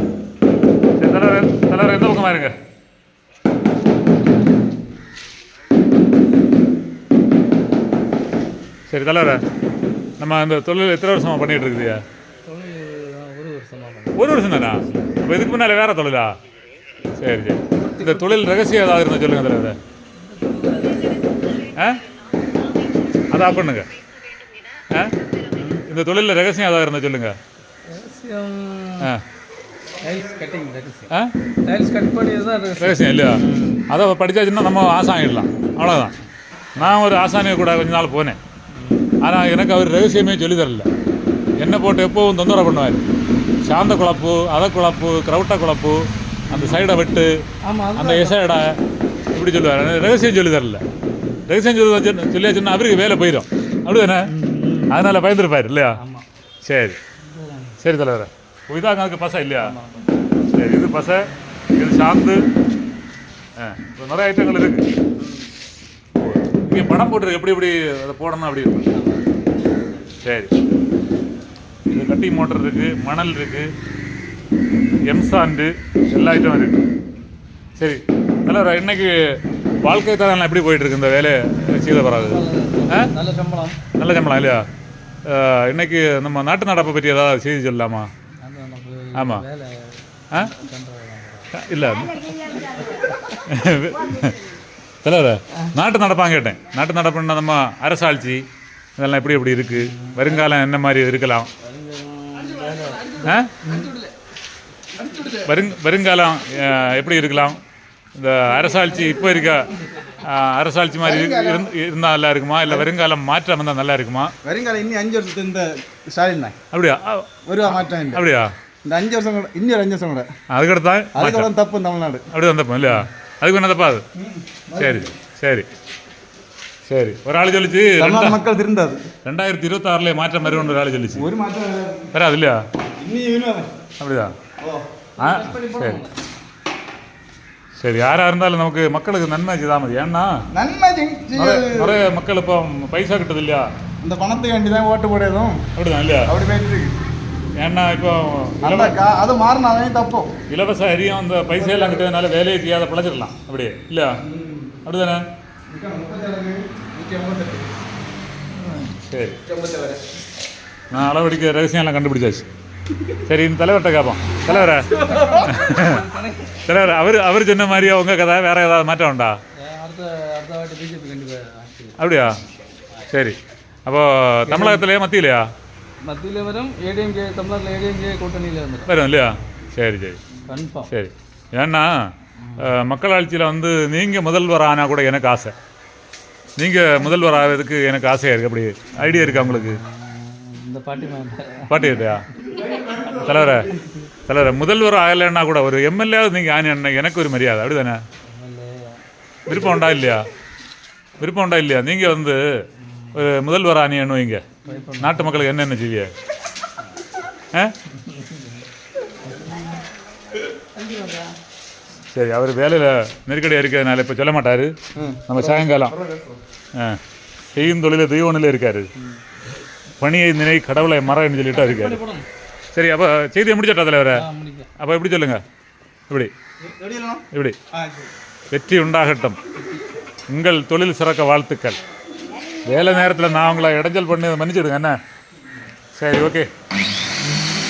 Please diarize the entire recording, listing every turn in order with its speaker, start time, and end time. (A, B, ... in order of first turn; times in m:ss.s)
0:01.0-0:02.6 A
0:08.9-0:09.4 A
0:10.2-0:12.0 A
0:12.5-0:14.3 B
0:14.2-0:16.4 A
0:17.2-0:19.8 A
0:17.7-0:18.4 B
0:20.2-0:21.5 B
0:23.3-0:23.9 A
0:24.9-0:25.2 A
0:25.4-0:25.8 B
0:25.8-0:27.4 A
0:27.9-0:29.1 B
0:30.0-0:31.1 B
0:31.6-0:33.9 B
0:32.8-0:36.1 A
0:36.8-0:38.4 A
0:38.7-0:39.1 B
0:39.2-0:40.9 A
0:41.6-0:43.1 A
0:43.6-0:47.3 A
0:46.5-0:46.8 B
0:47.6-0:48.6 B
0:48.0-0:48.8 A
0:49.3-0:50.8 A
0:51.5-0:54.3 A
0:54.3-0:55.0 B
0:54.9-0:56.0 A
0:56.0-0:56.2 B
0:56.6-0:57.0 A
0:57.2-0:57.8 B
0:57.8-0:59.7 A
0:59.6-1:00.2 B
1:00.5-1:02.4 A
1:03.6-1:04.8 A
1:06.2-1:08.8 A
1:08.9-1:09.7 B
1:10.2-1:10.5 A
1:11.9-1:13.7 A
1:15.1-1:16.8 A
1:17.8-1:19.2 A
1:19.8-1:23.1 A
1:22.1-1:23.8 B
1:24.0-1:24.6 A
1:25.2-1:28.1 A
1:28.4-1:31.5 B
1:29.2-1:29.4 A
1:31.5-1:32.6 A
1:32.5-1:33.1 B
1:33.3-1:38.4 A
1:39.0-1:41.5 A
1:39.7-1:40.5 B
1:41.6-1:44.1 B
1:43.2-1:43.5 A
1:45.0-1:45.5 C
1:45.4-1:47.6 A
1:48.2-1:49.7 A
1:48.5-1:50.2 B
1:50.2-1:54.3 A
1:51.0-1:51.7 C
1:54.4-1:56.6 C
1:56.7-1:57.2 A
1:57.5-1:58.2 C
1:57.8-1:58.5 A
1:58.8-2:00.3 C
2:00.5-2:01.5 A
2:01.1-2:02.3 C
2:02.3-2:04.0 A
2:04.2-2:05.1 C
2:04.8-2:05.7 A
2:06.9-2:08.4 A
2:08.0-2:09.0 C
2:09.2-2:11.3 A
2:11.2-2:12.1 C
2:12.1-2:12.6 A
2:13.0-2:13.7 C
2:14.0-2:14.4 A
2:14.6-2:14.9 C
2:15.2-2:16.1 B
2:15.2-2:16.0 A
2:17.8-2:20.4 A
2:20.5-2:22.0 C
2:21.3-2:23.7 A
2:24.0-2:25.7 C
2:25.8-2:26.3 A
2:26.2-2:26.9 C
2:27.6-2:29.0 A
2:28.6-2:30.3 C
2:30.5-2:34.2 A
2:31.5-2:32.1 C
2:34.2-2:34.8 C
2:34.8-2:35.2 A
2:35.7-2:37.7 C
2:38.6-2:39.4 A
2:39.4-2:40.0 C
2:40.9-2:42.5 A
2:43.1-2:46.0 A
2:44.9-2:46.7 B
2:46.6-2:49.4 A
2:49.6-2:52.1 B
2:52.0-2:52.4 A
2:53.1-2:55.5 A
2:54.5-2:54.9 B
2:56.1-2:58.9 B
2:58.9-3:00.2 A
3:00.5-3:00.9 B
3:00.9-3:05.5 A
3:02.4-3:02.7 B
3:06.6-3:09.8 A
3:09.0-3:14.1 B
3:11.7-3:12.3 A
3:12.4-3:13.7 C
3:13.1-3:13.7 A
3:14.3-3:18.0 A
3:18.3-3:19.0 B
3:19.5-3:20.3 A
3:21.2-3:22.4 A
3:22.8-3:23.2 B
3:23.1-3:24.4 A
3:24.6-3:25.5 B
3:25.0-3:26.1 A
3:28.0-3:28.6 B
3:29.3-3:29.8 B
3:30.8-3:31.3 B
3:32.1-3:34.7 A
3:35.0-3:36.4 C
3:35.3-3:35.9 A
3:36.8-3:37.0 A
3:37.5-3:38.9 A
3:40.0-3:42.0 A
3:41.5-3:42.3 B
3:42.7-3:44.3 A
3:44.1-3:44.7 B
3:44.8-3:45.4 A
3:46.6-3:48.1 C
3:47.3-3:47.6 A
3:48.5-3:49.4 A
3:50.3-3:51.8 A
3:52.6-3:55.0 A
3:55.9-3:56.5 A